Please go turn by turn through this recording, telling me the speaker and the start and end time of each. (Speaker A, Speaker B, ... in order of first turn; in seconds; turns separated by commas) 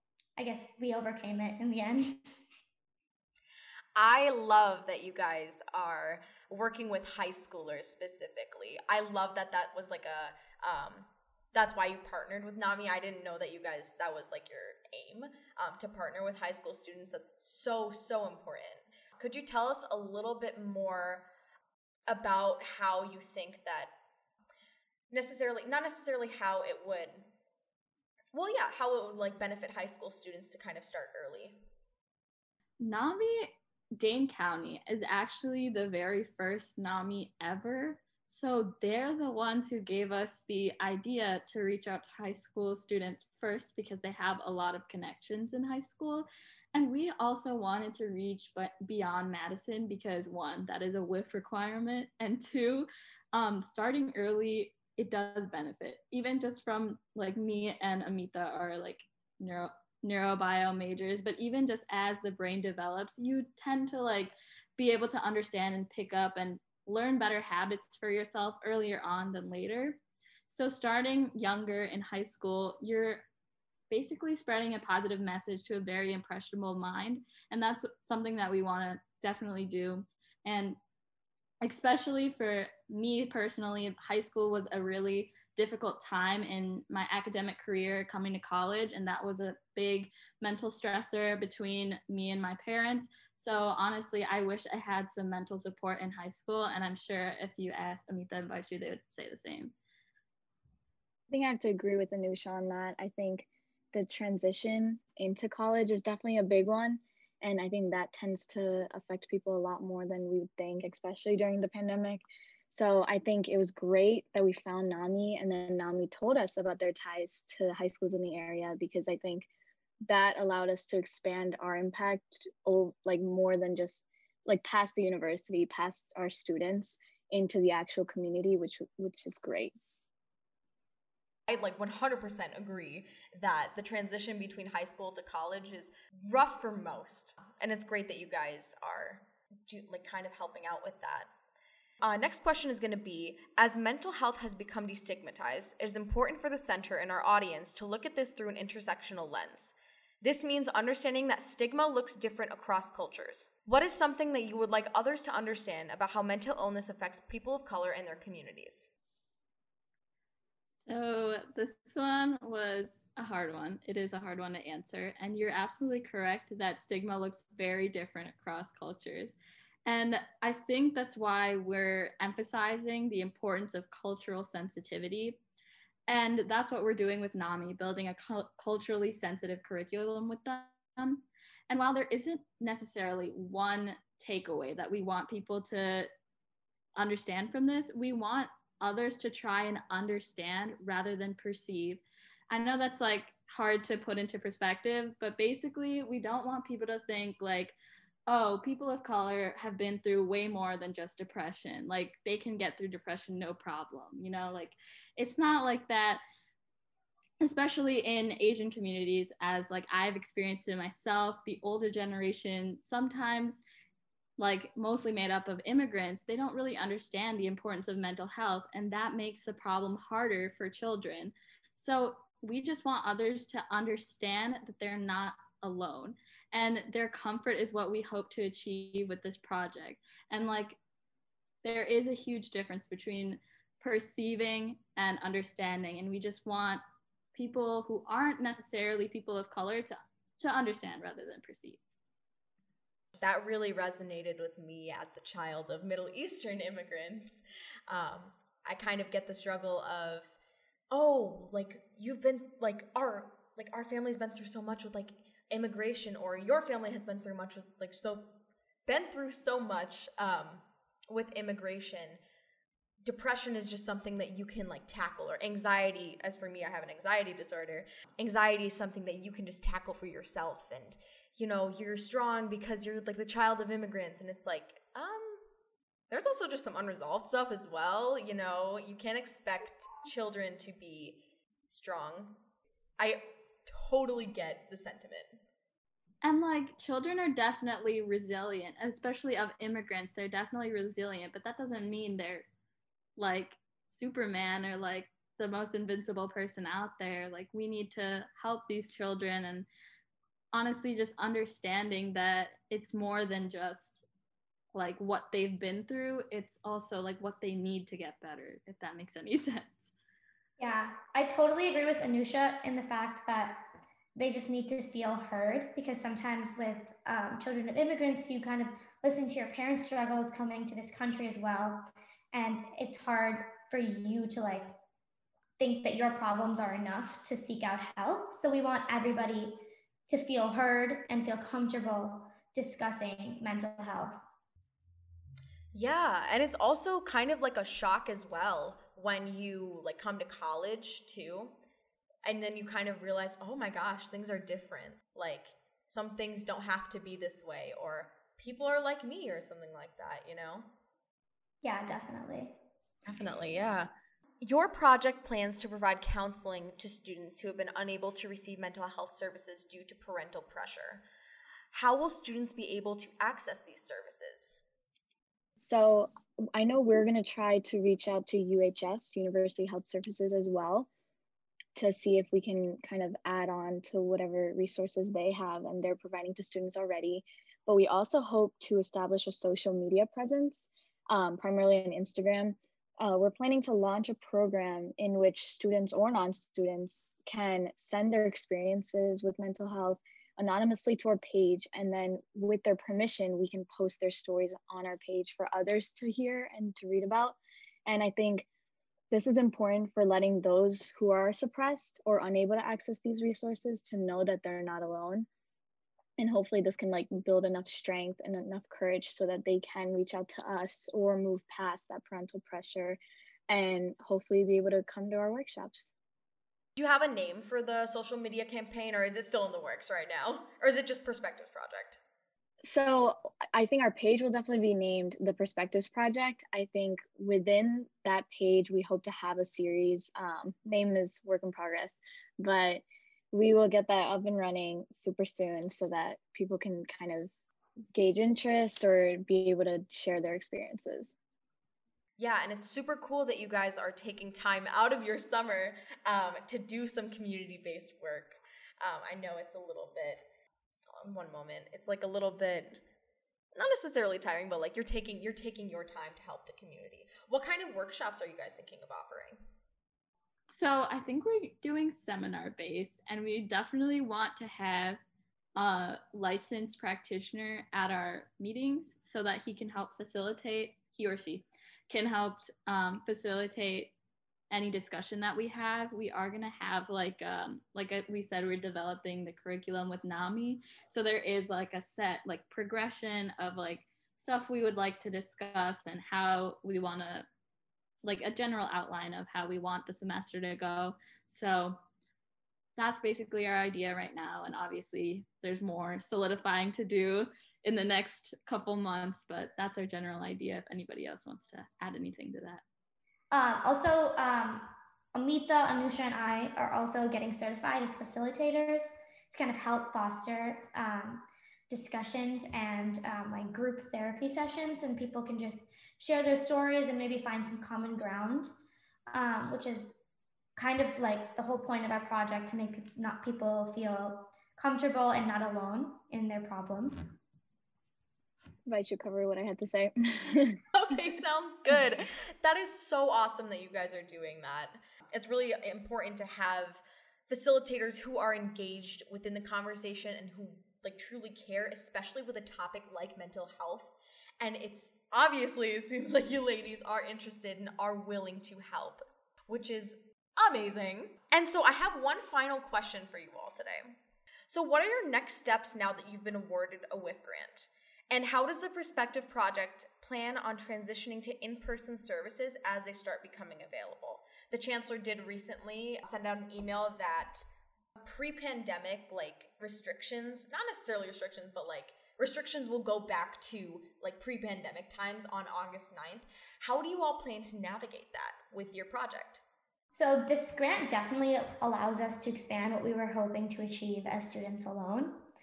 Speaker A: 0.4-2.3, Speaker B: 3.9-21.2, Speaker B: 22.1-23.9, Speaker B: 25.1-27.2, Speaker B: 28.3-31.6, Speaker C: 32.8-73.3, Speaker C: 73.9-80.8, Speaker C: 81.6-99.7, Speaker D: 101.3-119.5, Speaker D: 120.0-129.7, Speaker B: 131.5-141.3, Speaker B: 142.0-158.9, Speaker C: 160.8-169.3, Speaker C: 169.8-175.4, Speaker C: 176.1-186.1, Speaker C: 186.9-197.8, Speaker C: 198.3-206.2, Speaker C: 207.4-213.6, Speaker C: 214.4-230.8, Speaker C: 231.6-236.8, Speaker C: 237.3-241.8, Speaker B: 243.2-250.3, Speaker B: 250.9-258.3, Speaker B: 258.9-262.2, Speaker B: 263.0-275.4, Speaker B: 276.1-282.4, Speaker B: 283.0-285.4, Speaker C: 286.2-292.5, Speaker C: 293.2-299.7, Speaker C: 300.5-304.0, Speaker C: 304.7-309.9, Speaker A: 310.6-324.8, Speaker A: 325.6-334.2, Speaker B: 335.7-341.5, Speaker B: 342.2-350.7, Speaker A: 351.6-352.6, Speaker B: 353.1-361.0, Speaker B: 361.7-364.6, Speaker D: 365.6-370.9, Speaker D: 371.7-398.5, Speaker D: 399.1-405.3, Speaker D: 406.2-415.9, Speaker B: 416.8-422.0, Speaker D: 422.6-437.3, Speaker D: 437.9-441.1, Speaker B: 442.2-450.2, Speaker B: 451.0-452.8, Speaker B: 453.5-459.4, Speaker C: 460.5-465.0, Speaker C: 465.6-473.9, Speaker C: 474.5-487.3, Speaker C: 488.0-491.8, Speaker C: 492.8-502.6, Speaker A: 503.3-518.5, Speaker A: 519.1-520.0, Speaker A: 520.5-527.0, Speaker D: 528.6-530.6, Speaker B: 530.7-554.0, Speaker B: 554.5-567.4, Speaker B: 568.0-579.4, Speaker A: 579.9-585.2